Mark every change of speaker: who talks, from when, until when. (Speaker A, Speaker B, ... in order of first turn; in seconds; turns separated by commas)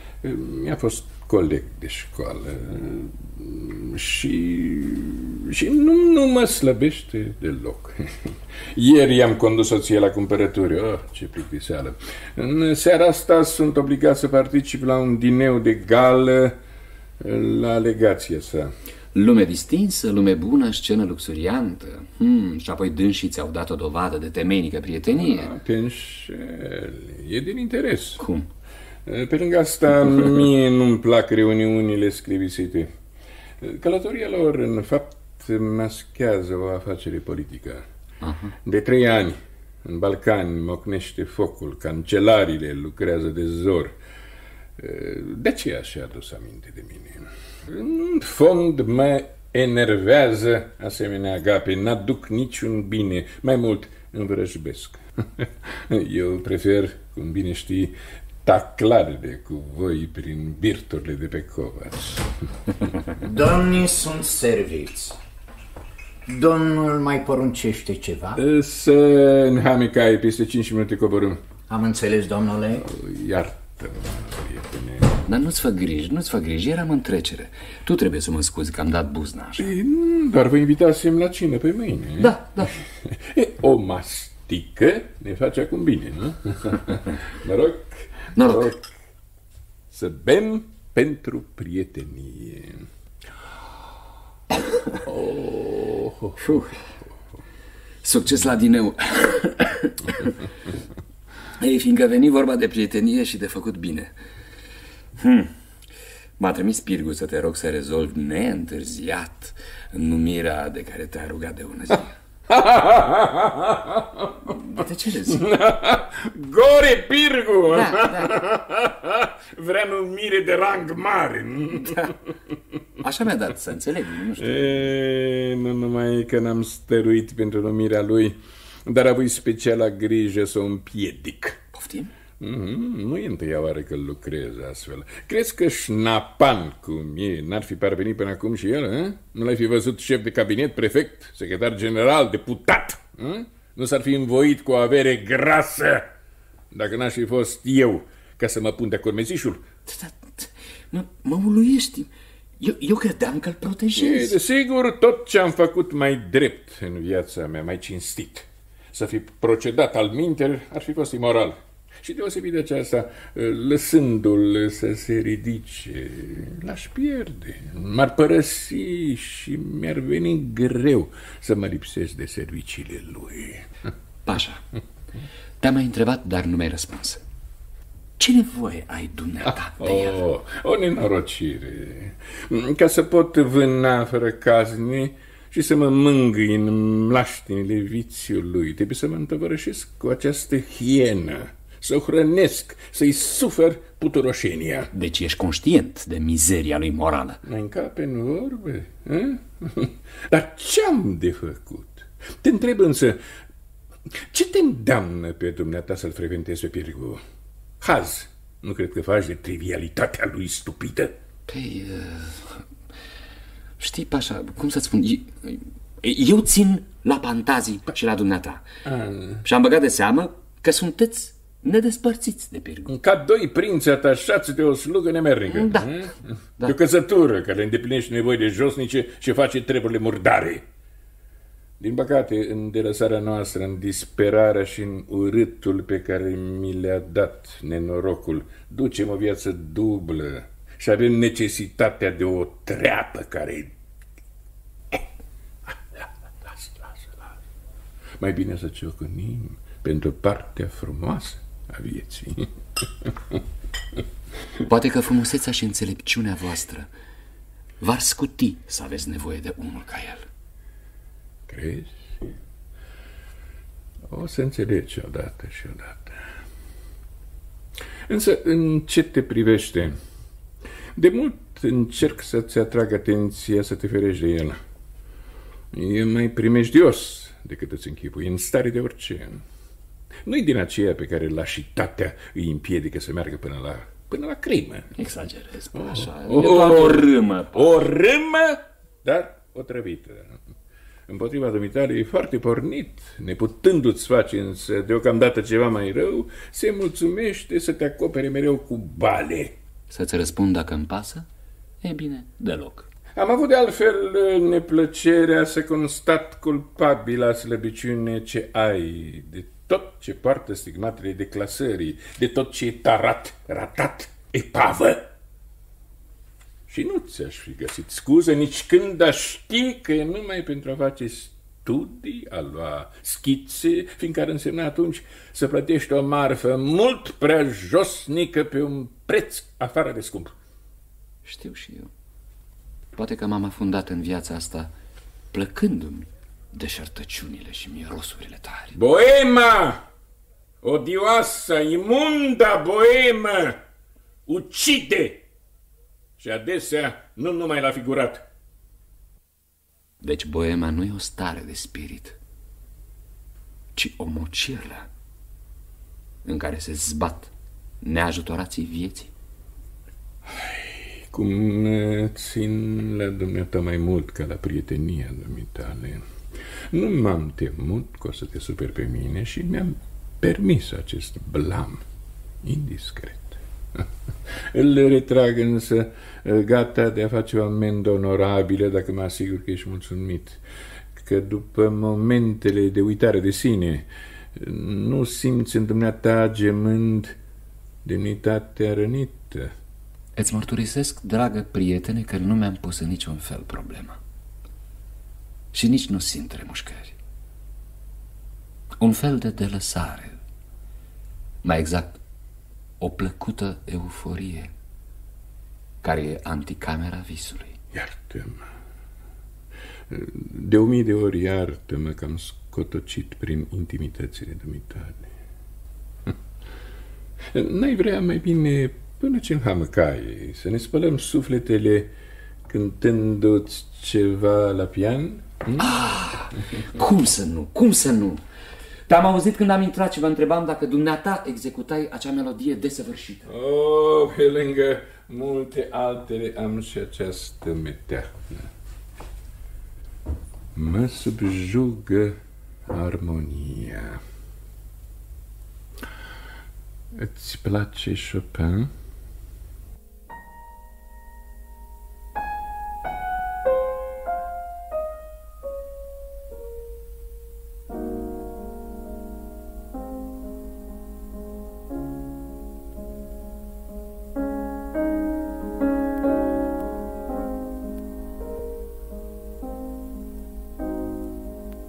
Speaker A: 0.2-16.6, Speaker A: 17.2-18.7, Speaker B: 19.1-25.5, Speaker A: 25.1-28.2, Speaker B: 28.2-28.5, Speaker A: 29.1-32.9, Speaker A: 33.6-37.9, Speaker B: 38.2-38.5, Speaker A: 38.6-44.0, Speaker A: 44.8-62.4, Speaker C: 63.2-65.2, Speaker C: 66.3-68.4, Speaker A: 68.3-71.4, Speaker C: 71.7-72.8, Speaker A: 72.7-75.2, Speaker B: 75.2-79.7, Speaker A: 79.6-88.8, Speaker B: 82.2-82.7, Speaker B: 88.3-88.7, Speaker A: 89.9-92.8, Speaker A: 95.0-96.6, Speaker B: 96.4-96.8, Speaker B: 98.0-100.4, Speaker B: 101.5-104.1, Speaker B: 105.2-105.5, Speaker B: 106.4-112.2, Speaker A: 112.5-114.4, Speaker B: 114.4-115.4, Speaker A: 115.3-122.1, Speaker B: 117.7-118.4, Speaker B: 121.8-122.1, Speaker B: 123.0-124.9, Speaker A: 124.4-131.6, Speaker B: 131.7-132.1, Speaker A: 132.4-146.1, Speaker A: 146.7-149.7, Speaker B: 149.8-154.3, Speaker A: 153.9-173.7, Speaker B: 174.2-174.6, Speaker B: 175.6-177.2, Speaker B: 178.2-180.2, Speaker A: 179.4-194.9, Speaker B: 194.9-197.4, Speaker A: 197.4-203.2, Speaker A: 204.2-207.2, Speaker A: 207.8-211.1, Speaker B: 211.5-212.6, Speaker B: 213.8-218.7, Speaker A: 218.8-219.4, Speaker B: 219.4-222.9, Speaker A: 222.9-230.6, Speaker B: 225.5-226.7, Speaker A: 231.8-243.7, Speaker A: 245.7-247.4, Speaker A: 248.2-253.4, Speaker B: 254.6-256.9, Speaker B: 257.8-260.3, Speaker A: 261.5-262.3, Speaker A: 264.1-266.2, Speaker A: 268.1-269.9, Speaker A: 270.9-274.6, Speaker A: 275.7-279.4, Speaker A: 280.2-284.9, Speaker B: 284.9-287.8, Speaker A: 285.7-290.4, Speaker A: 291.1-299.5, Speaker B: 299.9-301.3, Speaker B: 301.8-302.9, Speaker A: 303.1-315.1, Speaker A: 316.7-330.3, Speaker B: 331.2-331.9, Speaker B: 332.9-334.7, Speaker B: 335.3-338.8, Speaker A: 338.7-339.8, Speaker A: 340.6-343.6, Speaker A: 344.3-345.2, Speaker A: 346.2-348.2, Speaker B: 350.0-352.2, Speaker B: 353.7-354.9, Speaker B: 356.2-359.1, Speaker A: 360.3-366.0, Speaker A: 366.7-371.8, Speaker A: 372.4-380.4, Speaker A: 380.9-387.1, Speaker A: 387.8-389.5, Speaker B: 390.1-394.0, Speaker B: 395.5-396.9, Speaker B: 398.8-400.2, Speaker B: 401.4-402.0, Speaker B: 402.8-404.5, Speaker B: 405.8-407.6, Speaker A: 407.7-408.4, Speaker A: 409.9-415.1, Speaker A: 417.3-421.9, Speaker A: 422.5-425.7, Speaker B: 425.6-428.2, Speaker B: 428.9-433.3, Speaker A: 433.3-438.5, Speaker A: 440.5-442.2, Speaker A: 442.7-444.0, Speaker A: 446.9-448.7